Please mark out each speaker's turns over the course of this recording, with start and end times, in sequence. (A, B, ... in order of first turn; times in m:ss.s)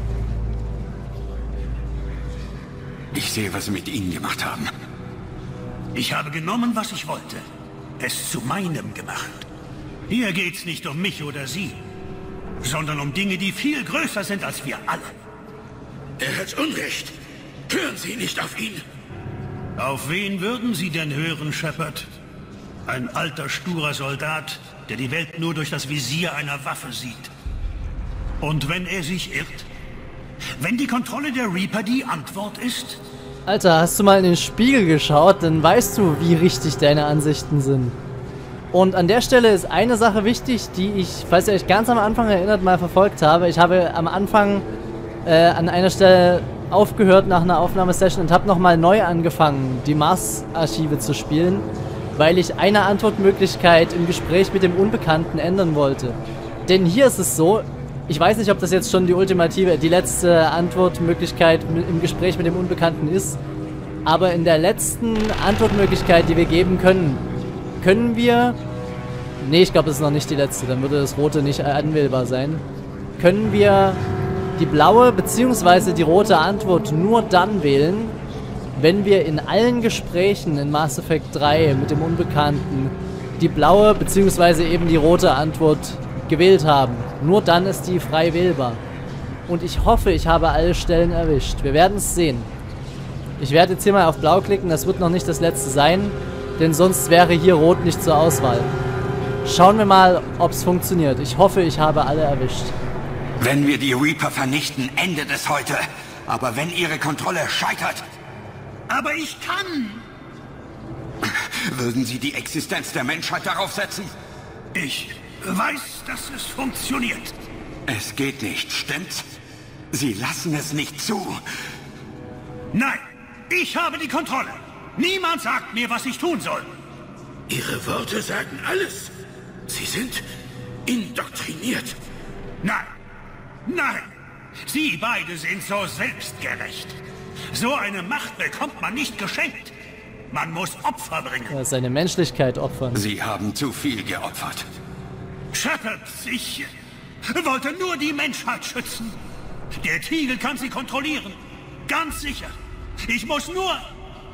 0:03.1-0:04.7 A
0:05.9-0:07.4 B
0:08.0-0:09.5 B
0:10.1-0:11.8 B
0:12.6-0:15.2 B
0:16.2-0:17.2 C
0:17.7-0:18.8 C
0:19.8-0:22.1 B
0:22.9-0:27.3 B
0:28.4-0:29.7 B
0:30.6-0:33.0 B
0:33.5-0:38.0 D
0:38.7-0:44.6 D
0:45.2-1:03.4 D
1:04.0-1:07.2 D
1:07.8-1:08.6 D
1:09.4-1:12.6 D
1:13.2-1:14.0 D
1:14.6-1:18.2 D
1:18.8-1:28.8 D
1:29.5-1:32.5 D
1:33.4-1:38.7 D
1:39.4-1:42.8 D
1:43.4-1:48.1 A
1:48.9-1:50.1 B
1:51.2-1:54.1 A
1:54.7-1:57.4 B
1:57.9-1:59.2 A
1:59.9-2:01.4 A
2:02.7-2:06.7 B
2:07.5-2:09.2 C
2:09.7-2:10.2 C
2:10.9-2:12.0 C
2:13.7-2:14.1 B
2:14.7-2:17.0 B
2:17.5-2:19.7 B
2:20.3-2:21.6 B
2:21.5-2:23.0 D
2:22.9-2:24.7 A
2:25.5-2:26.7 B
2:27.3-2:29.2 B
2:29.8-2:32.6 B
2:33.1-2:33.9 B